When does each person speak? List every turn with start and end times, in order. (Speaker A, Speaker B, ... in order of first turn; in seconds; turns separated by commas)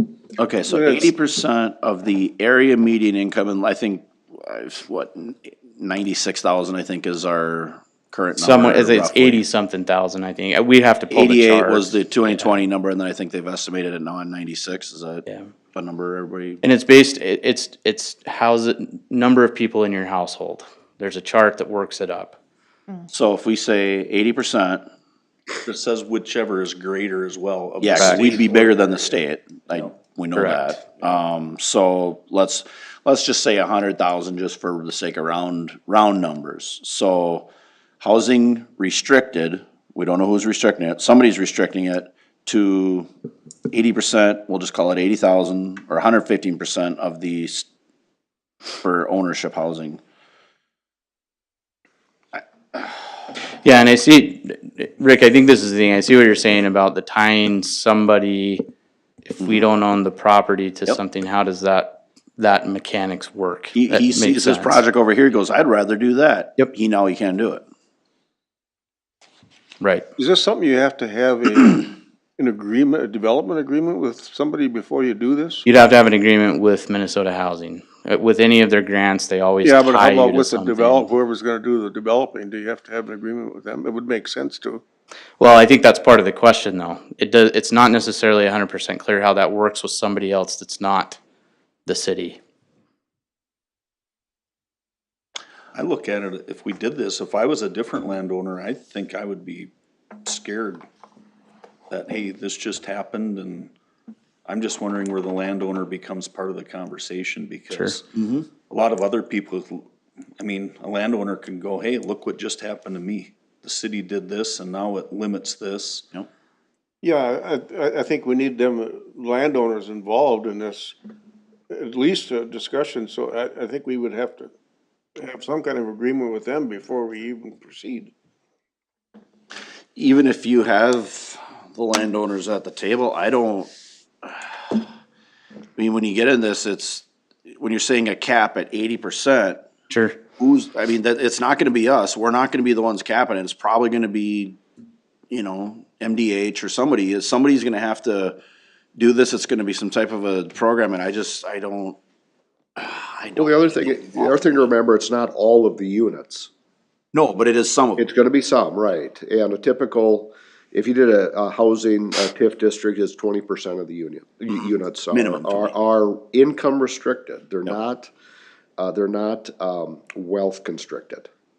Speaker A: 0.4-9.4, Speaker B: 0.7-1.1, Speaker C: 8.4-12.6, Speaker A: 11.1-15.2, Speaker A: 15.7-16.6, Speaker C: 16.6-22.4, Speaker A: 23.1-24.8, Speaker D: 25.6-30.0, Speaker A: 27.8-37.5, Speaker C: 28.0-28.4, Speaker C: 30.3-30.8, Speaker A: 38.0-43.1, Speaker A: 43.7-47.7, Speaker A: 48.8-50.0, Speaker C: 53.6-58.6, Speaker C: 59.3-64.8, Speaker A: 63.7-67.6, Speaker C: 69.8-70.0, Speaker B: 70.2-75.6, Speaker C: 75.6-81.0, Speaker B: 79.6-84.8, Speaker C: 85.4-91.2, Speaker C: 91.8-92.4, Speaker D: 95.7-99.7, Speaker D: 100.2-100.8, Speaker D: 101.9-103.7, Speaker D: 104.5-108.1, Speaker C: 107.7-108.0, Speaker A: 108.1-108.5, Speaker D: 108.6-109.8, Speaker D: 110.4-116.1, Speaker B: 117.0-120.9, Speaker B: 121.7-124.5, Speaker B: 125.2-128.1, Speaker A: 129.9-133.7, Speaker A: 134.2-134.8, Speaker A: 135.8-139.7, Speaker C: 139.9-140.2, Speaker A: 140.4-144.6, Speaker A: 145.3-148.4, Speaker A: 148.9-152.0, Speaker A: 152.8-154.7, Speaker E: 153.3-156.5, Speaker A: 157.1-158.0, Speaker E: 158.0-168.1, Speaker A: 164.5-165.7, Speaker E: 168.8-171.3